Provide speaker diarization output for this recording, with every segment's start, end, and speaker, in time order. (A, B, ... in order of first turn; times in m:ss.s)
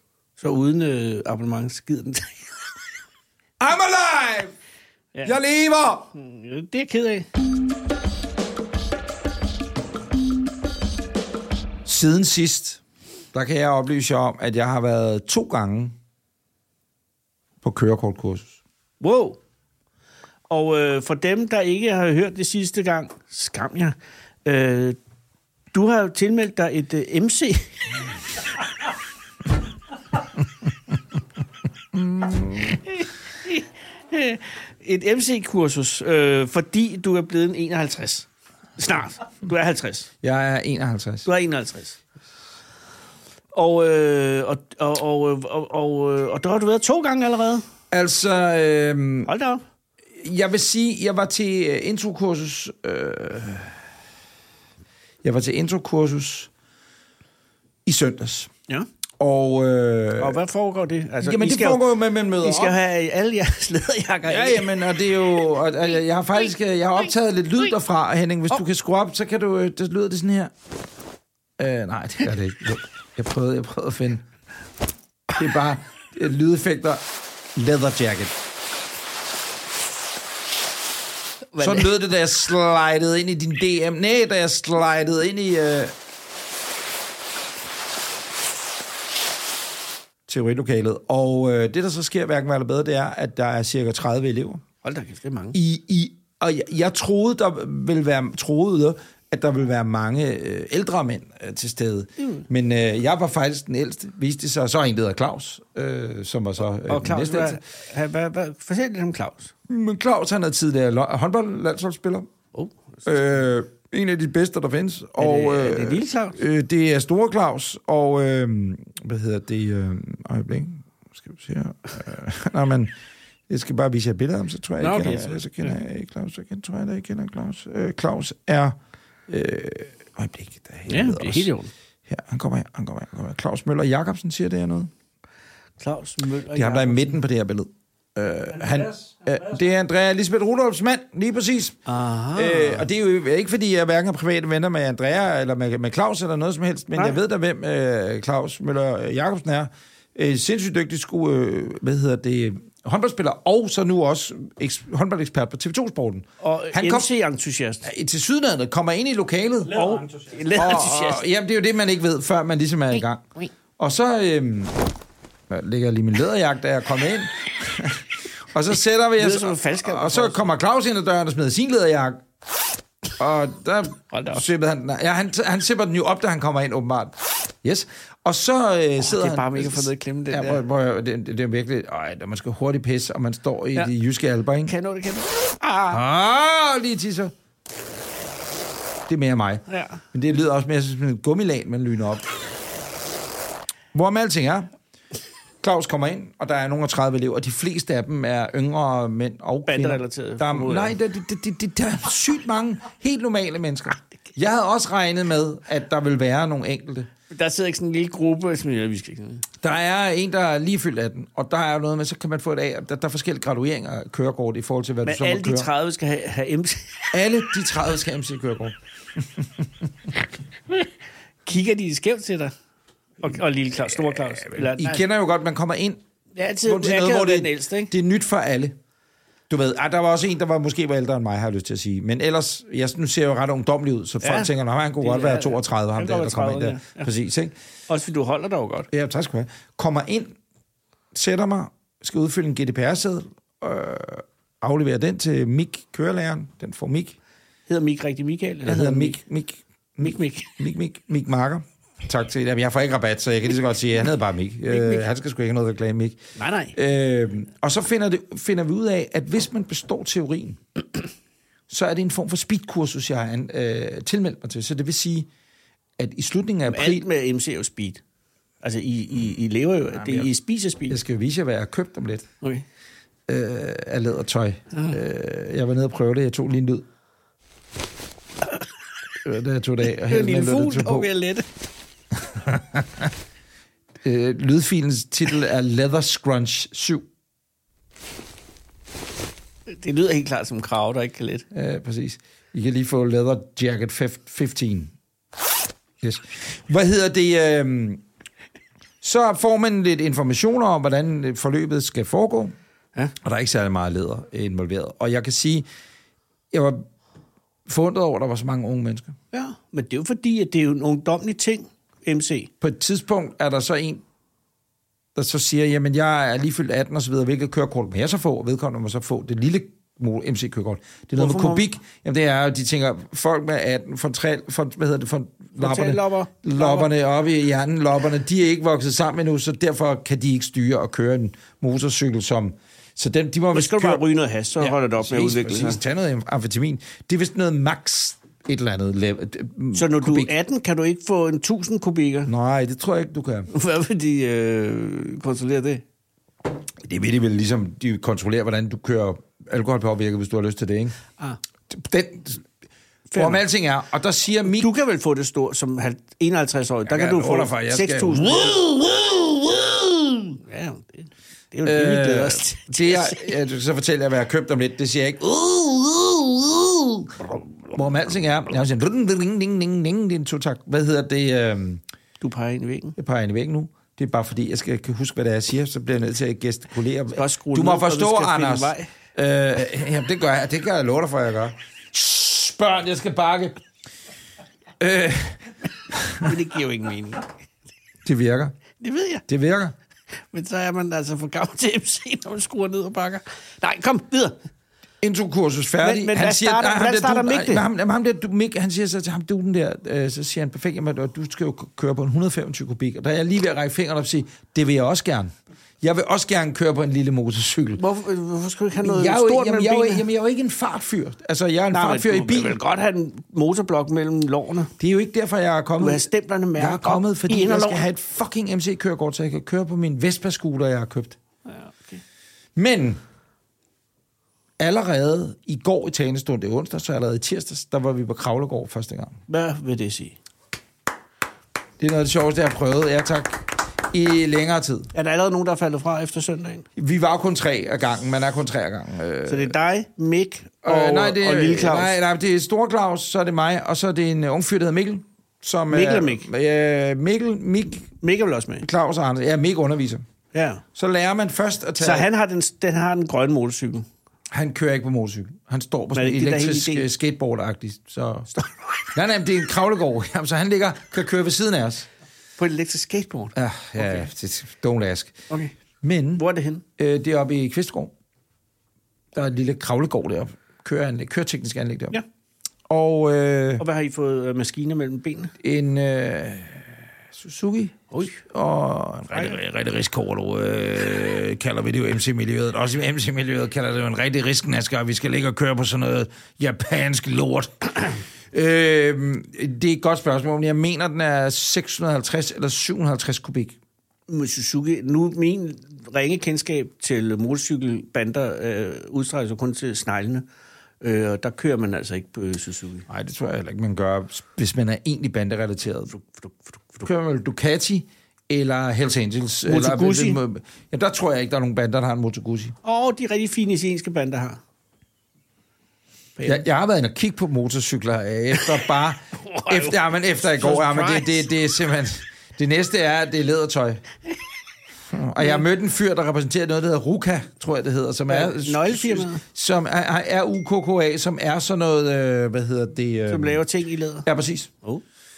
0:00.4-0:02.5 A
0:03.6-0:04.5 B
0:05.2-0:06.1 B
0:06.1-0:07.3 A
0:11.8-0:12.8 B
0:13.3-0:16.0 B
0:17.6-0:18.6 B
0:19.0-0:19.4 A
0:20.5-0:25.0 A
0:25.7-0:27.8 A
0:31.9-0:32.8 B
0:32.9-0:38.3 A
0:38.8-0:40.1 A
0:40.2-0:41.3 B
0:41.2-0:42.0 A
0:43.5-0:47.6 A
0:47.9-0:49.3 B
0:49.2-0:49.6 A
0:50.2-0:53.8 B
0:55.2-0:56.5 B
0:57.8-0:58.5 B
0:59.2-1:00.4 B
1:00.2-1:01.8 A
1:01.2-1:02.8 B
1:02.4-1:04.8 A
1:04.2-1:10.5 B
1:11.6-1:14.2 B
1:15.3-1:18.3 B
1:21.5-1:21.9 A
1:21.6-1:25.9 B
1:30.3-1:34.6 B
1:34.8-1:35.6 A
1:35.5-1:47.6 B
1:46.8-1:49.5 A
1:49.7-1:52.3 B
1:52.5-1:53.1 A
1:53.0-2:02.9 B
1:55.2-1:56.4 A
2:03.5-2:08.8 B
2:04.8-2:05.7 A
2:09.3-2:11.5 B
2:10.9-2:11.7 A
2:12.1-2:14.9 B
2:15.8-2:17.2 A
2:16.5-2:21.8 B
2:21.8-2:22.9 A
2:22.3-2:37.1 B
2:36.4-2:37.9 A
2:37.8-2:43.2 B
2:39.7-2:41.2 A
2:43.8-2:44.8 B
2:45.5-2:52.2 B
2:49.2-2:50.5 A
2:53.2-3:04.7 B
2:54.1-2:54.4 A
2:59.0-3:00.6 A
3:04.6-3:06.0 A
3:05.9-3:07.3 B
3:09.1-3:12.3 B
3:09.7-3:10.0 A
3:13.9-3:14.7 B
3:15.6-3:27.1 B
3:19.7-3:20.9 A
3:27.3-3:29.4 A
3:29.6-3:35.7 B
3:35.0-3:37.2 A
3:37.1-3:39.6 B
3:41.4-3:42.5 A
3:43.2-3:45.0 A
3:43.9-3:46.0 B
3:46.3-3:47.9 A
3:46.6-3:48.8 B
3:49.5-3:57.5 B
3:54.2-3:57.1 A
3:57.9-3:58.9 A
3:58.9-4:00.4 B
4:01.1-4:07.2 B
4:07.7-4:09.2 A
4:08.6-4:16.2 B
4:10.0-4:10.6 A
4:14.7-4:15.0 A
4:16.4-4:16.8 A
4:16.7-4:20.6 B
4:21.7-4:25.3 B
4:26.0-4:27.1 B
4:26.7-4:28.0 A
4:28.6-4:31.0 A
4:30.0-4:30.3 B
4:30.9-4:32.3 B
4:33.3-4:36.8 B
4:39.2-4:41.1 B
4:40.0-4:41.4 A
4:42.2-4:43.1 B
4:44.0-4:47.1 B
4:49.7-4:51.4 A
4:51.5-4:54.9 B
4:56.0-4:58.0 B
4:59.0-5:02.5 B
5:03.2-5:05.7 B
5:06.5-5:06.9 B
5:07.7-5:09.2 B
5:09.3-5:12.5 A
5:12.6-5:14.0 B
5:15.1-5:34.0 B
5:21.2-5:21.6 A
5:25.6-5:26.9 A
5:33.5-5:35.8 A
5:34.6-5:40.3 B
5:39.7-5:42.3 A
5:42.3-5:43.5 B
5:43.5-5:45.8 A
5:46.8-5:51.0 B
5:51.7-5:52.4 B
5:53.1-5:53.4 A
5:53.1-5:54.7 B
5:54.5-5:58.6 A
5:56.8-6:00.4 B
6:00.4-6:03.3 A
6:01.6-6:11.8 B
6:12.2-6:13.0 A
6:13.0-6:23.6 B
6:17.1-6:18.9 A
6:24.8-6:26.3 B
6:26.2-6:27.3 A
6:28.0-6:28.6 B
6:28.8-6:29.2 A
6:29.3-6:29.7 B
6:30.3-6:34.4 A
6:35.0-6:47.8 B
6:35.8-6:37.6 A
6:47.8-6:50.0 A
6:48.8-6:52.6 B
6:51.7-6:54.7 A
6:54.8-7:01.2 B
6:55.8-6:57.9 A
7:01.4-7:02.0 A
7:02.6-7:03.0 B
7:04.6-7:09.2 B
7:09.3-7:10.2 A
7:11.8-7:14.9 B
7:14.9-7:16.6 A
7:16.8-7:19.5 B
7:19.3-7:21.9 A
7:20.6-7:27.9 B
7:25.7-7:26.3 A
7:28.0-7:28.6 A
7:28.6-7:30.0 B
7:30.3-7:30.6 A
7:30.7-7:32.1 B
7:31.8-7:33.9 A
7:34.3-7:38.3 B
7:35.9-7:36.9 A
7:38.9-7:41.9 B
7:42.4-7:44.1 A
7:43.3-7:45.2 B
7:45.8-7:46.2 B
7:46.2-7:46.6 A
7:46.8-7:47.9 B
7:49.1-7:52.0 B
7:52.7-7:53.6 B
7:53.6-7:55.3 A
7:55.4-8:13.6 B
8:14.1-8:20.2 A
8:20.8-8:22.8 A
8:22.9-8:25.9 B
8:25.9-8:26.9 A
8:26.8-8:32.5 B
8:29.4-8:30.2 A
8:32.6-8:34.4 A
8:36.2-8:36.4 A
8:36.2-8:43.8 B
8:39.2-8:41.2 A
8:44.9-8:53.4 B
8:48.1-8:49.2 A
8:53.1-8:54.1 A
8:54.0-8:54.5 B